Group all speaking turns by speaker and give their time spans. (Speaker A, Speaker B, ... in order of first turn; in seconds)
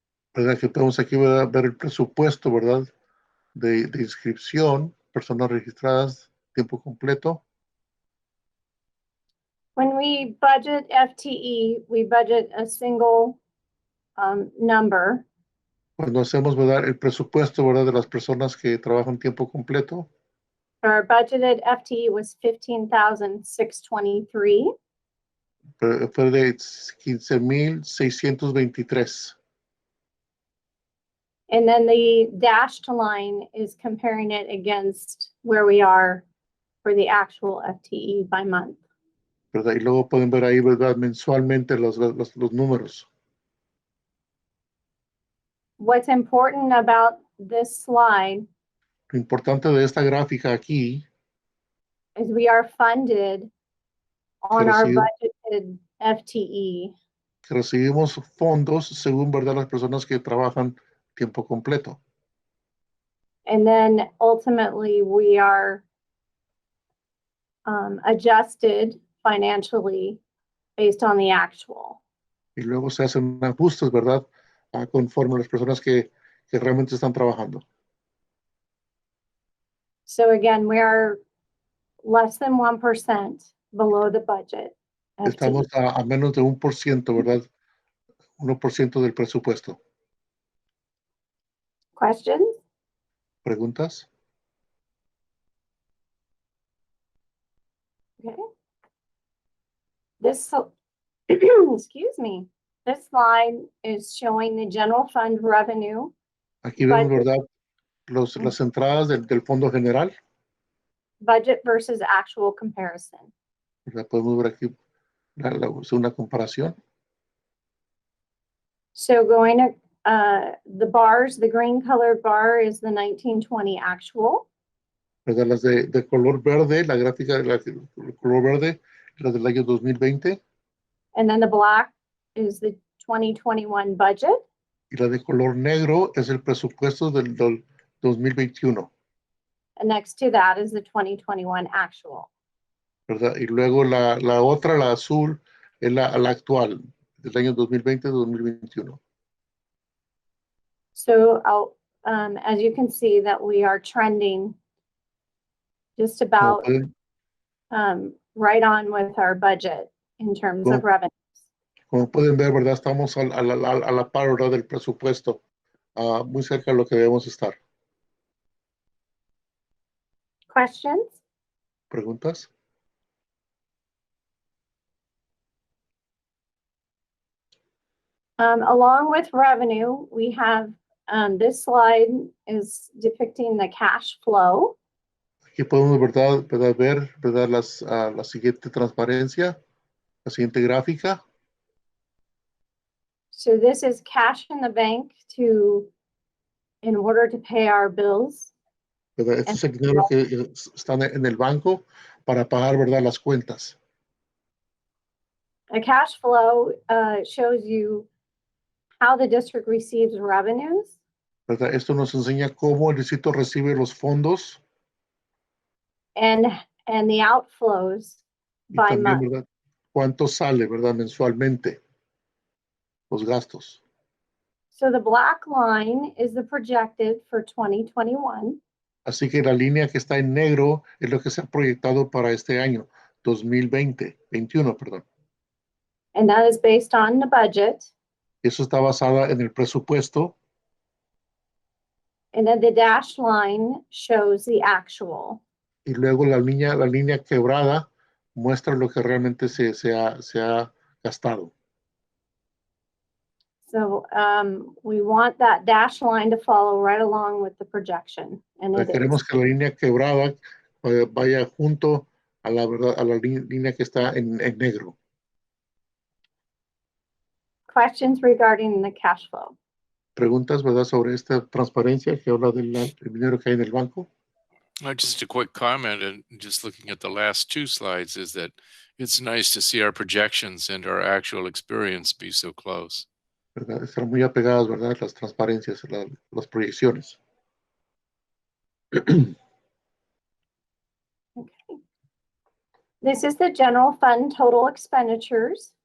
Speaker A: 0.3-2.9, 3.6-7.4, 16.0-20.1, 25.8-29.4, 39.5-43.0, 49.1-51.0, 54.5-55.1, 57.5-62.0, 72.6-77.6, 85.2-87.5, 88.4-89.8, 93.5-94.1, 106.6-107.4, 108.1-110.1, 113.9-114.7, 115.4-116.8, 125.2-130.4, 134.9-138.9, 143.1-149.0, 156.4-156.9, 161.9-165.4, 166.0-167.6, 171.9-172.5, 185.6-189.6, 190.2-191.2, 199.2-203.8, 211.5-214.6, 218.7-221.8, 223.1-223.8, 229.1-235.1, 238.4-240.3, 245.9-247.8, 248.4-251.5, 258.7-264.9, 270.2-274.1, 283.6-287.2, 288.9-289.3
Speaker B: 9.8-13.4, 14.2-15.2, 20.8-24.7, 31.5-36.2, 36.8-38.8, 45.8-48.5, 52.2-53.5, 54.4-56.9, 63.5-65.8, 67.7-70.2, 70.8-72.0, 80.1-81.2, 82.0-85.6, 92.0-92.6, 100.2-100.7, 101.3-106.1, 106.8-107.3, 111.2-113.3, 119.0-124.5, 131.2-134.4, 139.8-142.3, 150.9-154.6, 156.0-156.7, 157.7-161.3, 170.5-171.2, 178.4-184.8, 193.3-195.9, 196.8-198.5, 199.5-200.1, 205.7-208.1, 209.0-210.9, 216.2-218.2, 218.8-219.2, 224.7-228.6, 236.2-237.9, 242.3-245.4, 253.7-259.2, 267.7-269.6, 291.4-291.8, 293.0-295.7
Speaker C: 274.8-283.1